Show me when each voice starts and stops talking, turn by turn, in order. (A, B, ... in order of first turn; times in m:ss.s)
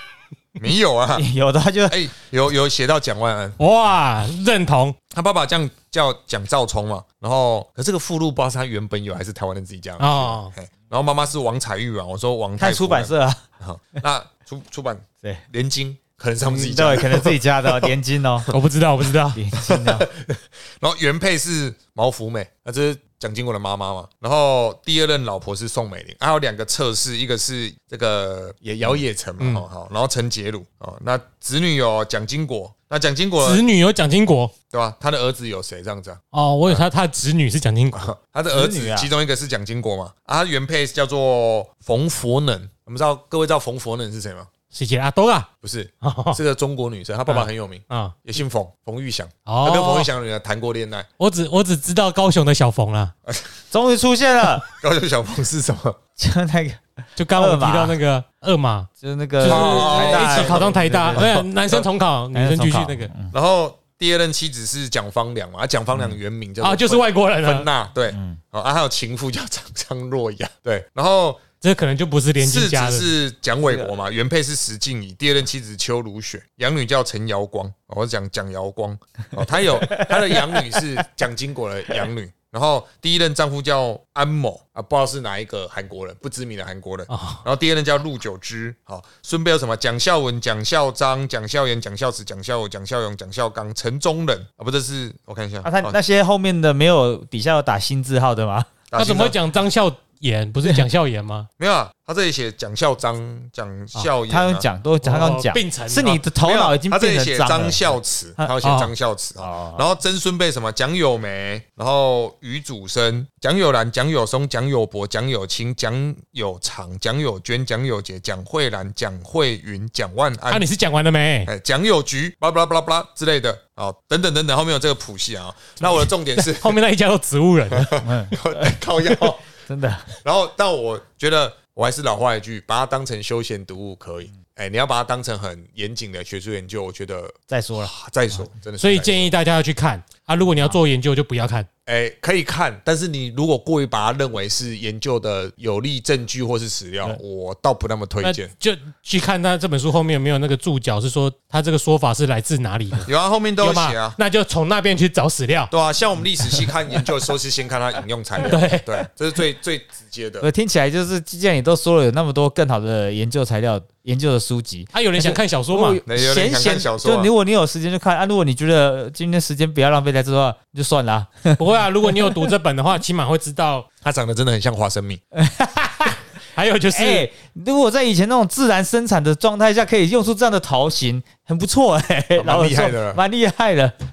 0:00.6-0:01.3 A
0:01.2-0:02.0 B
0:01.9-0:03.6 A
0:03.6-0:05.0 C
0:05.1-0:17.9 A
0:10.0-0:10.5 C
0:12.6-0:13.4 B
0:16.4-0:18.5 B
0:18.5-0:19.4 C
0:19.3-0:20.1 B
0:19.6-0:33.6 A
0:29.4-0:29.6 C
0:33.4-0:34.5 C
0:34.7-0:36.9 A
0:36.3-0:38.1 C
0:37.9-0:44.5 A
0:38.5-0:39.1 B
0:44.7-0:45.5 C
0:45.6-0:51.1 A
0:46.0-0:46.4 C
0:47.3-0:48.2 C
0:49.5-0:50.1 C
0:51.2-0:53.1 C
0:53.7-0:54.7 B
0:54.7-0:56.0 A
0:56.2-0:58.0 B
0:57.2-0:58.9 C
0:59.0-1:03.3 B
0:59.4-1:03.1 C
0:59.4-1:01.2 A
1:03.3-1:11.4 A
1:06.6-1:07.7 C
1:11.6-1:13.1 C
1:12.4-1:36.0 A
1:19.8-1:20.8 B
1:27.1-1:27.4 C
1:35.6-1:38.7 B
1:38.9-1:39.4 A
1:39.0-1:41.5 C
1:41.6-1:44.7 A
1:44.0-1:48.5 B
1:45.0-1:46.2 C
1:46.4-2:00.7 A
1:48.6-1:48.9 C
1:49.4-1:49.8 B
2:00.5-2:01.5 C
2:01.5-2:06.8 A
2:05.9-2:08.0 C
2:07.7-2:09.4 A
2:08.0-2:10.1 B
2:10.2-2:19.3 A
2:17.5-2:18.4 B
2:18.8-2:21.7 C
2:21.9-2:28.5 A
2:28.2-2:33.1 C
2:33.1-2:34.2 A
2:33.6-2:35.7 C
2:35.7-2:40.5 A
2:38.4-2:39.0 C
2:40.4-2:52.5 B
2:44.9-2:46.0 C
2:46.1-2:47.3 A
2:51.6-2:53.9 C
2:54.0-2:55.2 A
2:55.3-2:56.2 B
2:56.5-2:57.3 C
2:56.9-3:03.9 B
3:02.4-3:03.2 A